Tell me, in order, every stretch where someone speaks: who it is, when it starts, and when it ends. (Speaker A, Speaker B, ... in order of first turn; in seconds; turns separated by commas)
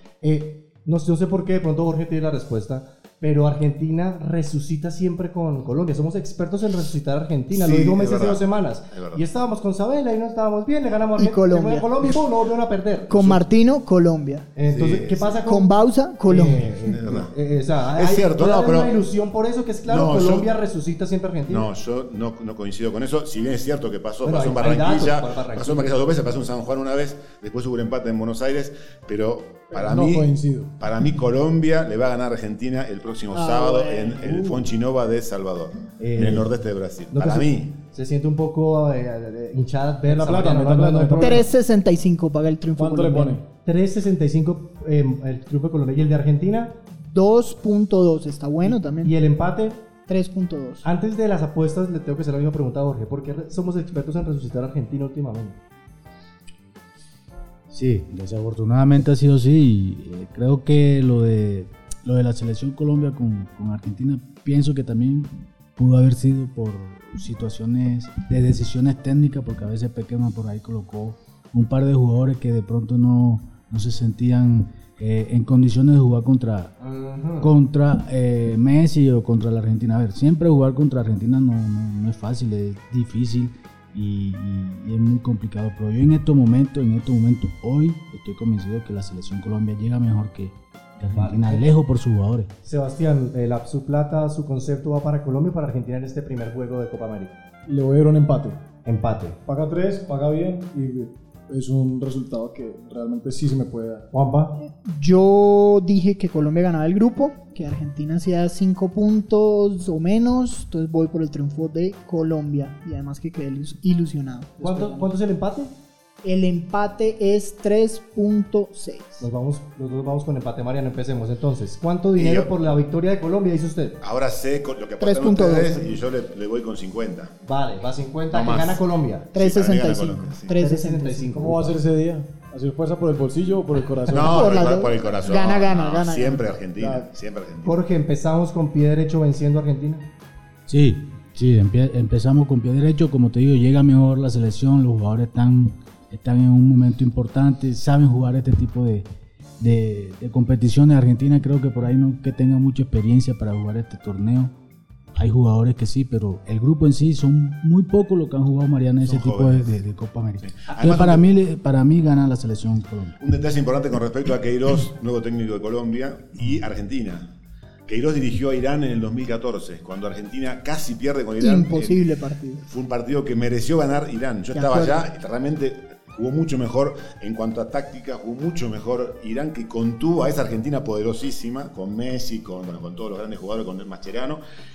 Speaker A: 0.2-13.4, Speaker B: 7.5-9.2, Speaker C: 11.2-12.0, Speaker C: 13.1-14.5, Speaker A: 14.6-15.7, Speaker B: 14.7-15.4, Speaker C: 15.4-16.8, Speaker A: 16.2-21.7, Speaker B: 16.9-17.3, Speaker B: 17.9-19.0, Speaker B: 19.9-20.5, Speaker B: 21.5-37.7, Speaker A: 24.2-26.0, Speaker D: 29.7-30.7, Speaker C: 33.3-34.2, Speaker A: 34.2-34.7, Speaker A: 36.0-36.5, Speaker A: 37.1-41.5, Speaker D: 40.1-41.5, Speaker C: 41.2-43.4, Speaker D: 42.8-43.5, Speaker A: 43.6-46.8, Speaker C: 47.0-49.1, Speaker A: 48.6-49.8, Speaker C: 50.1-50.9, Speaker A: 50.8-55.6, Speaker E: 57.7-76.7, Speaker A: 76.8-77.5, Speaker E: 77.4-92.5, Speaker A: 91.1-91.8, Speaker A: 92.6-97.4, Speaker D: 97.7-98.6, Speaker A: 98.8-99.4, Speaker D: 99.5-104.1, Speaker A: 104.1-104.6, Speaker C: 104.6-115.1, Speaker A: 114.6-115.7, Speaker C: 116.2-119.3, Speaker A: 119.2-124.0, Speaker B: 122.2-122.6, Speaker B: 124.0-127.4, Speaker C: 125.0-126.0, Speaker A: 127.5-129.3, Speaker B: 128.3-128.8, Speaker B: 129.3-130.5, Speaker C: 129.3-131.4, Speaker A: 130.6-131.8, Speaker D: 131.3-134.6, Speaker B: 134.1-137.8, Speaker C: 134.2-136.5, Speaker D: 136.8-137.1, Speaker A: 137.6-140.1, Speaker E: 140.7-149.1, Speaker E: 149.6-154.5, Speaker E: 155.2-163.2, Speaker B: 159.0-159.8, Speaker B: 160.4-161.2, Speaker B: 163.2-167.3, Speaker B: 167.9-172.1, Speaker C: 171.4-172.6, Speaker B: 172.6-184.4, Speaker C: 174.5-175.0